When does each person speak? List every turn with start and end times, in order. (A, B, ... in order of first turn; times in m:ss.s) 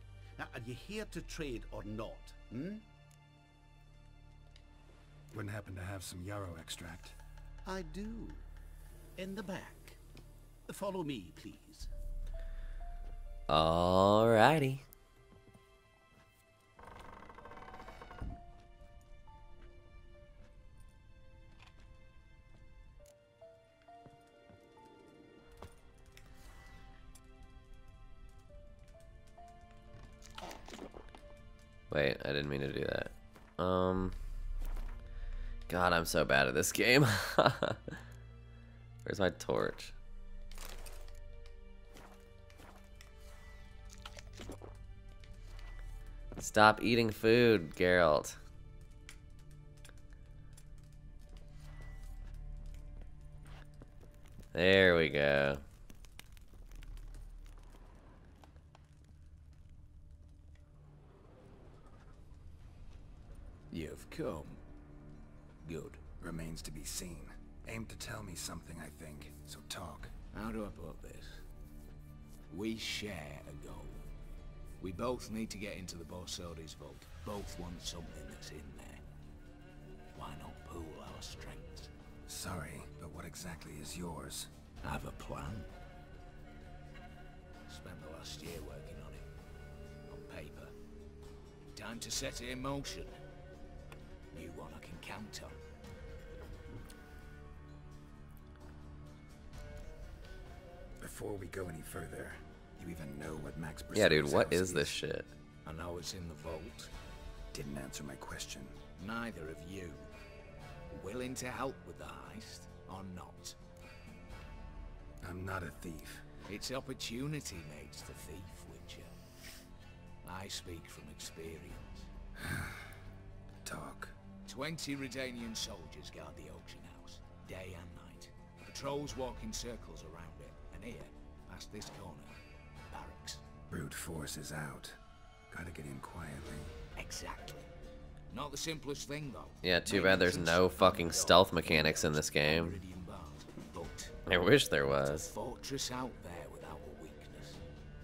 0:00.4-0:02.8 A
0:05.3-0:07.2 B
0:07.6-0:08.4 A
0:09.2-0:10.0 A
0:10.7-0:11.9 A
0:13.5-0:14.8 C
0:31.9-0:34.2 C
0:35.7-0:37.8 C
0:39.0-0:39.9 C
0:46.4-0:48.4 C
0:54.5-0:55.6 C
1:03.7-1:04.6 D
1:05.6-1:06.0 D
1:06.2-1:10.1 B
1:10.3-1:11.4 D
1:12.5-1:14.0 D
1:14.8-1:19.0 D
1:20.1-1:21.9 D
1:22.3-1:24.5 B
1:24.8-1:25.7 D
1:27.7-1:29.3 D
1:30.1-1:30.7 D
1:31.7-1:33.2 D
1:34.3-1:35.6 D
1:41.0-1:45.0 B
1:43.9-1:45.3 C
1:45.6-1:46.9 D
1:47.5-1:48.8 B
1:49.0-1:50.1 D
1:50.9-1:53.6 D
1:55.2-1:56.3 B
1:56.5-1:59.1 D
2:00.2-2:02.1 D
2:02.4-2:02.9 B
2:03.6-2:04.2 B
2:04.4-2:13.4 D
2:13.7-2:15.0 B
2:15.5-2:16.8 B
2:17.0-2:17.7 D
2:18.3-2:24.2 D
2:19.6-2:22.8 C
2:24.3-2:25.3 C
2:25.0-2:27.6 D